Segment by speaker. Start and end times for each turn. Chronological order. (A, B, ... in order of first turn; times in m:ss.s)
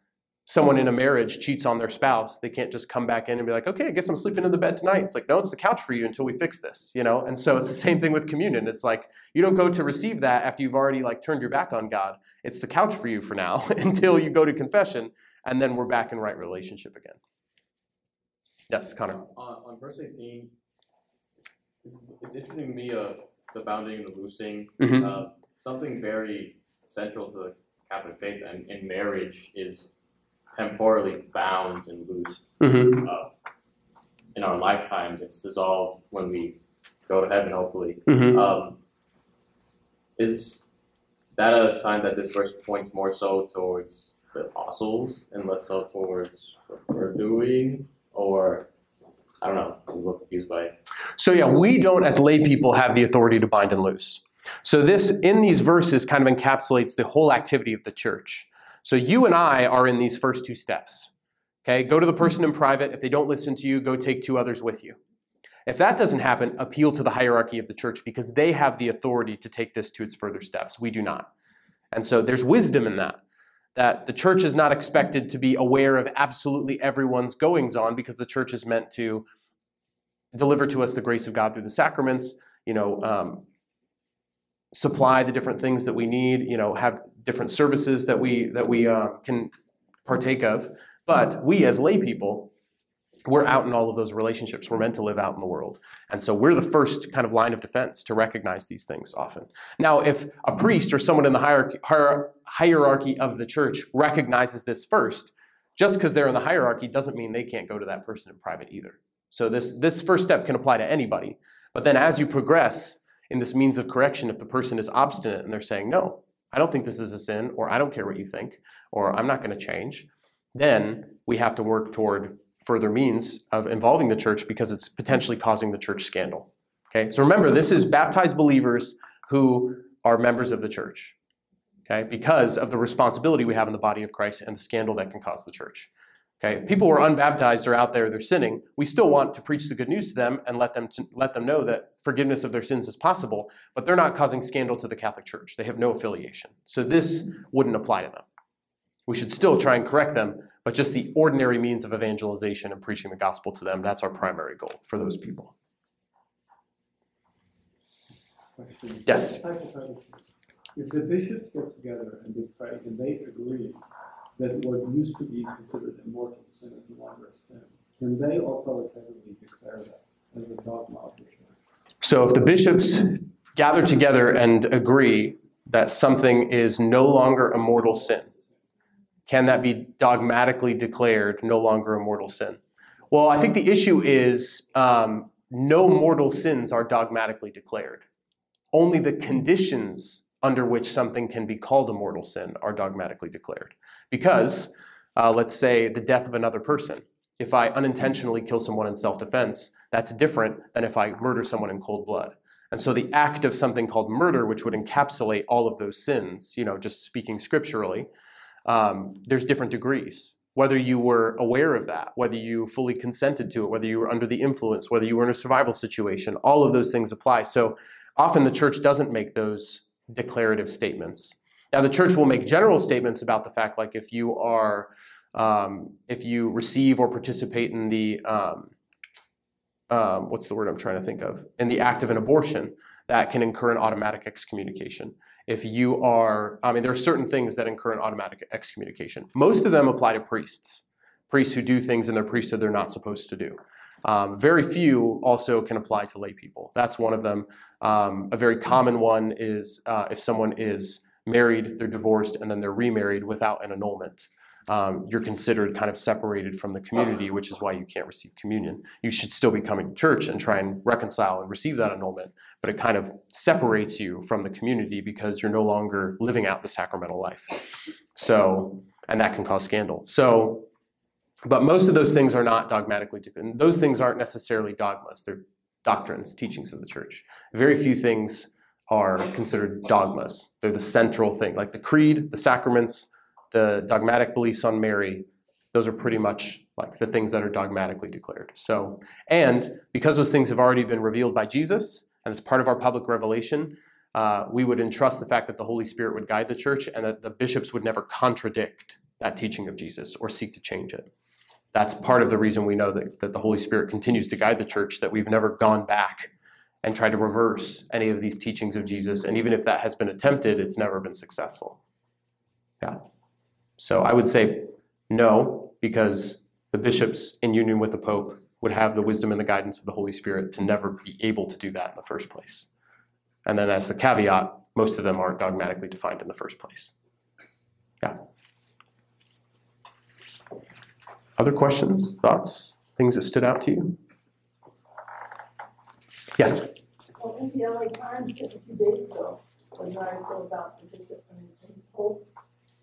0:00.5-0:17.2 A
0:18.7-0:19.2 A
0:19.2-0:20.5 B
0:21.8-0:29.9 B
0:24.8-0:25.1 A
0:30.5-0:33.3 B
0:32.6-0:33.1 A
0:34.3-0:36.6 B
0:37.1-0:38.8 B
0:38.1-0:38.4 A
0:40.2-0:40.6 B
0:41.4-0:48.7 B
0:49.4-0:50.7 B
0:51.2-1:01.1 A
1:01.6-1:05.0 A
1:05.6-1:11.3 A
1:11.9-1:13.2 A
1:13.8-1:19.3 A
1:20.3-1:23.4 A
1:24.7-1:29.5 A
1:30.1-1:32.5 A
1:33.3-2:11.2 A
2:11.9-2:15.9 A
2:16.4-2:28.2 A
2:29.1-2:35.5 A
2:38.6-2:43.8 C
2:39.0-2:39.4 A
2:44.4-2:51.5 C
2:52.0-2:58.3 A
2:59.3-3:02.6 A
3:03.1-3:08.0 A
3:08.7-3:28.1 A
3:28.6-3:48.7 A
3:49.9-4:27.6 A
4:28.1-4:30.6 A
4:31.4-5:01.1 A
5:01.7-5:06.3 A
5:06.8-5:11.8 A
5:13.8-5:22.7 A
5:23.4-5:26.9 A
5:31.4-5:34.0 A
5:36.4-5:36.7 A
5:37.2-5:42.2 D